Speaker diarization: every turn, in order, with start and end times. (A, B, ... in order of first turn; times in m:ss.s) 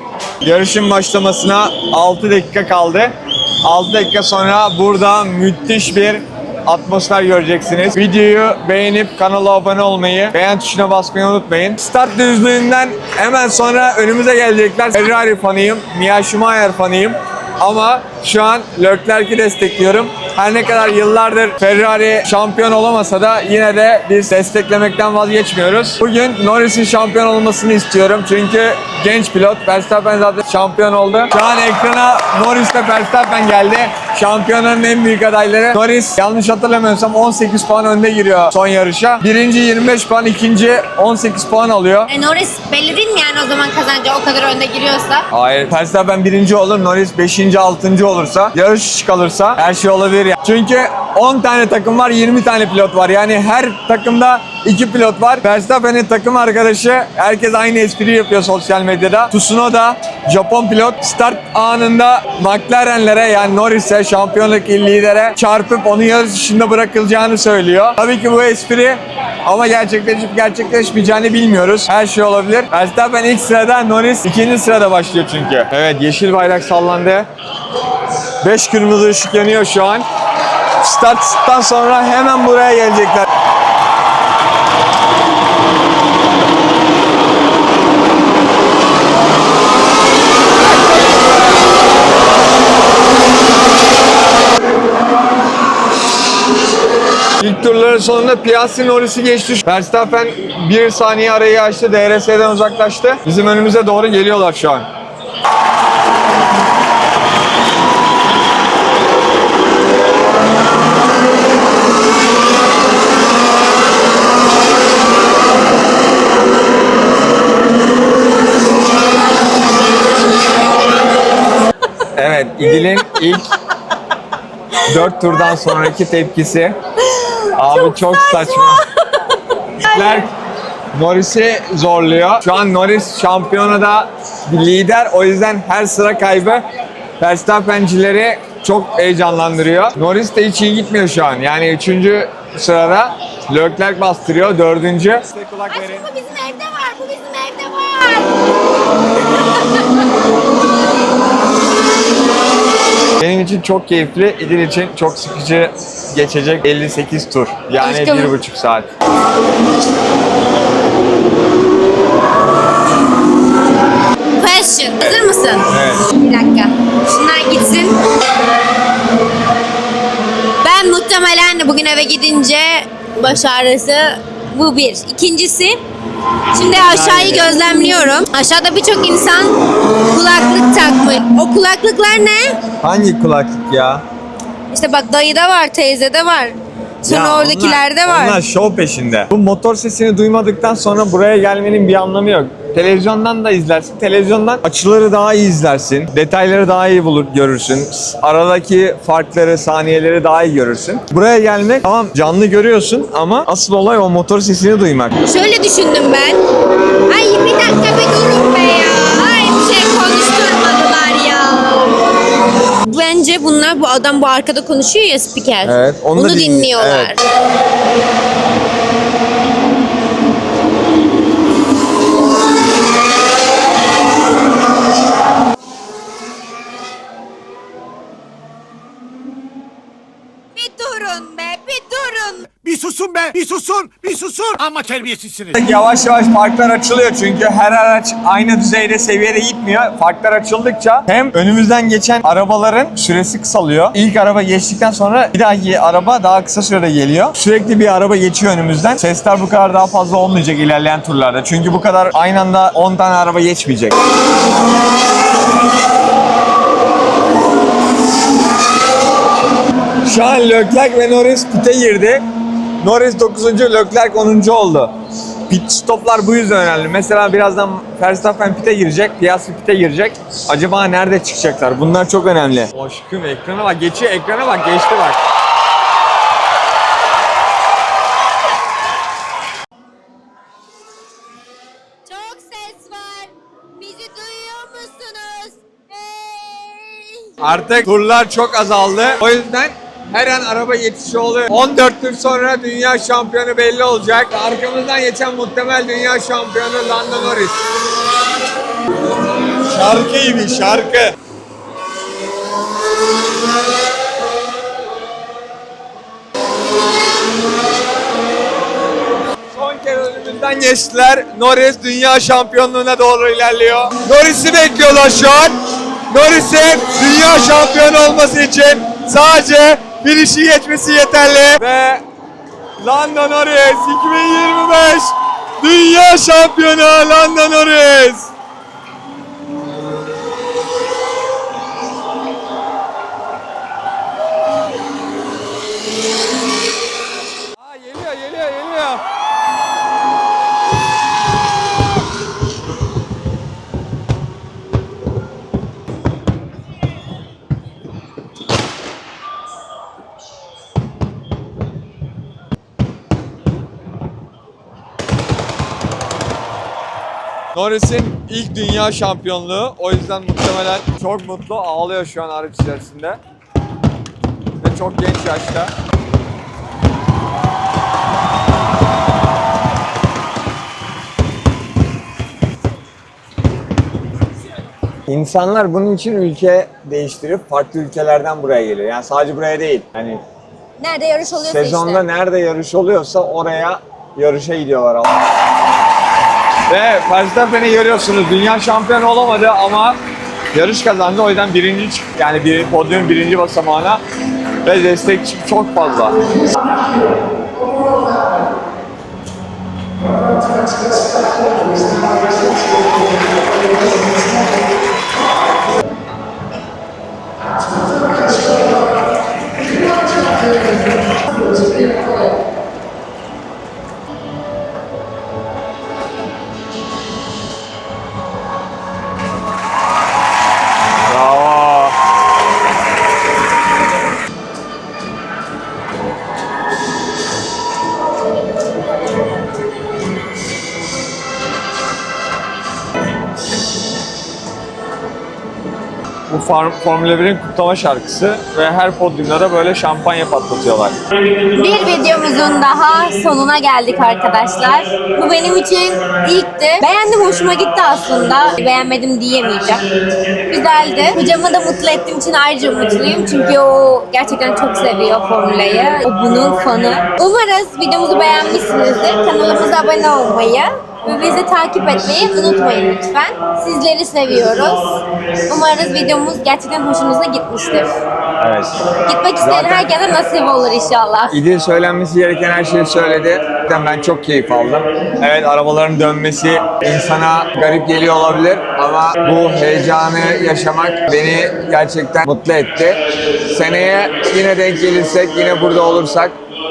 0:00.4-0:42.1 A
0:42.1-0:45.3 B
0:45.3-1:17.3 A
1:18.4-1:20.0 A
1:20.8-1:23.3 A
1:37.4-1:44.8 A
2:02.2-2:03.5 A
2:04.8-2:06.7 A
2:07.1-2:10.2 B
2:07.5-2:08.8 A
2:09.8-2:10.3 A
2:10.9-2:16.6 A
2:17.2-2:26.1 A
2:25.7-2:28.4 B
2:29.3-2:29.8 B
2:33.2-2:38.9 A
2:37.8-2:38.4 B
2:44.3-2:48.0 B
2:45.7-2:46.0 A
2:50.6-2:55.8 B
2:56.5-3:02.6 B
2:56.7-2:57.5 A
3:02.8-3:04.0 A
3:04.7-3:08.4 B
3:07.0-3:25.2 A
3:25.2-3:26.4 B
3:27.0-3:32.1 B
3:32.9-3:37.2 B
3:35.6-3:37.2 A
3:50.5-3:52.5 B
3:52.6-3:55.6 C
3:55.5-4:14.0 A
4:20.0-4:22.2 A
4:22.8-4:24.9 A
4:25.5-4:35.2 A
4:42.0-4:47.3 B
4:47.4-4:57.6 A
4:59.6-5:01.2 A
5:09.5-5:15.6 A
5:16.1-5:22.0 A
5:22.8-5:28.3 A
5:37.6-5:39.0 A
5:57.5-6:03.2 A
6:04.6-6:05.7 A
6:15.1-6:20.2 A
6:20.8-6:22.1 B
6:21.2-6:25.1 A
6:26.7-6:30.0 A
6:30.5-6:34.0 A
6:34.6-6:36.2 A
7:01.1-7:02.0 A
7:16.3-7:20.9 A
7:21.5-7:29.8 B
7:30.5-7:47.9 B
7:48.4-7:49.9 A
7:49.0-7:51.4 B
7:51.3-8:06.4 A